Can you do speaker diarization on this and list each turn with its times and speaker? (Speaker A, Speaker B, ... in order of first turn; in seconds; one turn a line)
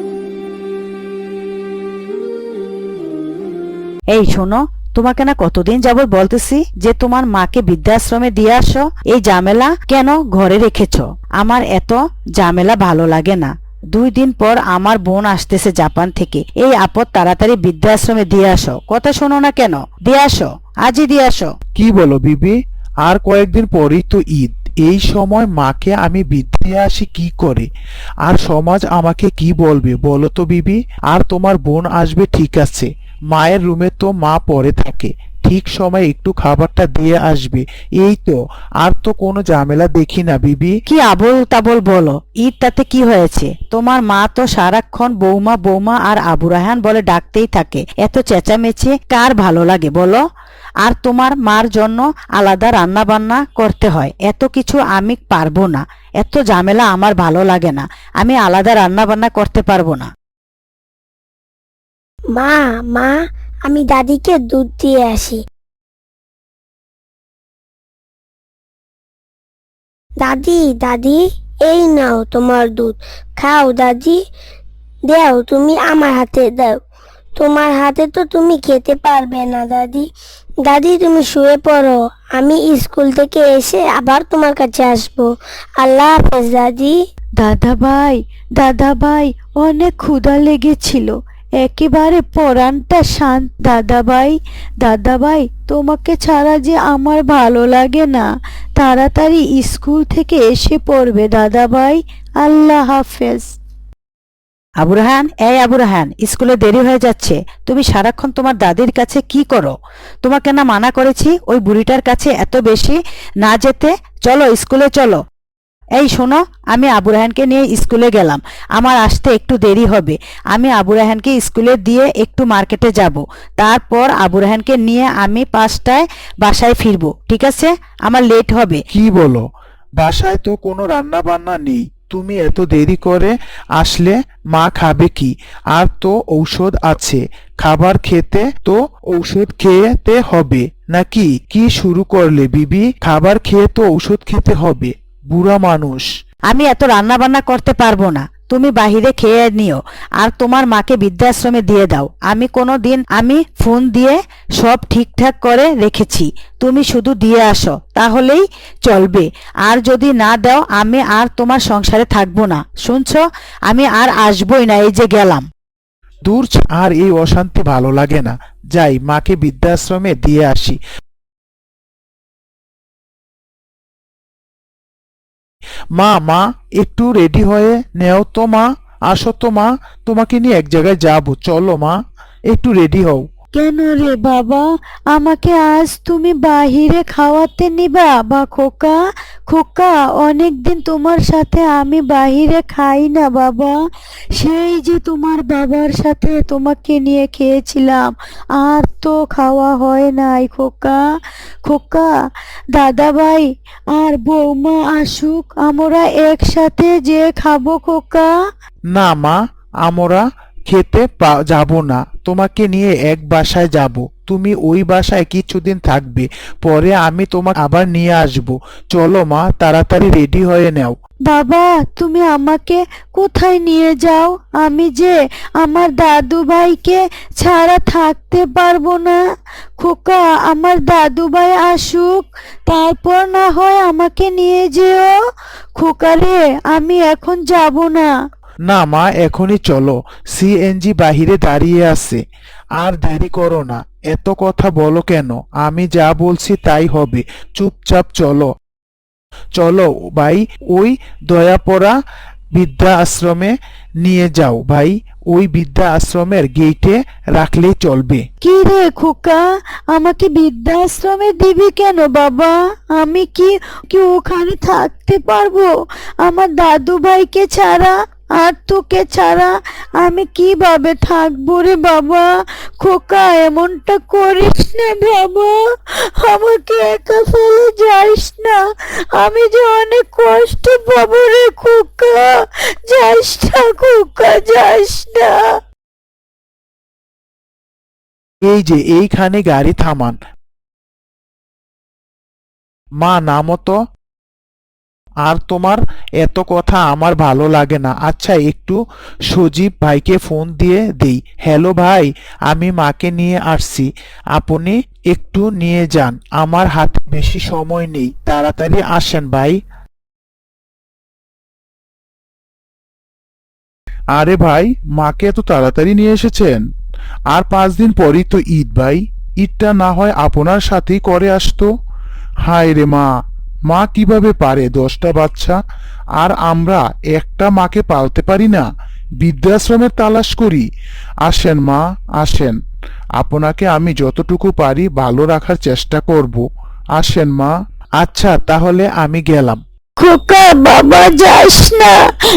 Speaker A: 4.1-21.5
Speaker B: 21.7-27.7
Speaker B: 28.2-40.8
Speaker A: 40.9-50.2
Speaker A: 50.8-60.1
Speaker C: 62.3-63.1
Speaker C: 63.7-65.4
Speaker C: 70.2-74.2
Speaker C: 75.1-76.8
Speaker C: 77.3-80.1
Speaker C: 80.6-87.0
Speaker D: 87.4-103.5
Speaker A: 104.8-115.2
Speaker A: 116.0-128.8
Speaker B: 128.9-129.4
Speaker B: 130.0-146.1
Speaker A: 146.5-165.4
Speaker B: 166.3-170.8
Speaker B: 176.0-181.9
Speaker B: 182.5-183.2
Speaker D: 183.5-193.8
Speaker D: 194.4-201.0
Speaker D: 201.6-202.1
Speaker D: 202.7-208.3
Speaker B: 208.9-220.9
Speaker D: 221.3-229.2
Speaker D: 229.8-235.2
Speaker D: 235.8-238.1
Speaker B: 238.7-242.2
Speaker B: 242.8-248.5
Speaker B: 249.6-251.9
Speaker B: 252.5-258.2
Speaker D: 258.4-265.7
Speaker D: 266.2-272.3
Speaker D: 272.8-275.6
Speaker D: 276.2-278.6
Speaker D: 279.2-282.3
Speaker D: 282.9-285.4
Speaker B: 288.4-290.2
Speaker B: 293.0-293.8
Speaker B: 295.2-298.8
Speaker B: 299.3-309.6
Speaker B: 314.1-316.6
Speaker B: 317.3-321.7
Speaker B: 322.4-323.1
Speaker B: 323.7-325.6
Speaker B: 326.2-328.7
Speaker B: 329.2-330.6
Speaker B: 331.2-332.5
Speaker B: 333.2-336.4
Speaker B: 337.0-339.6
Speaker D: 340.0-341.9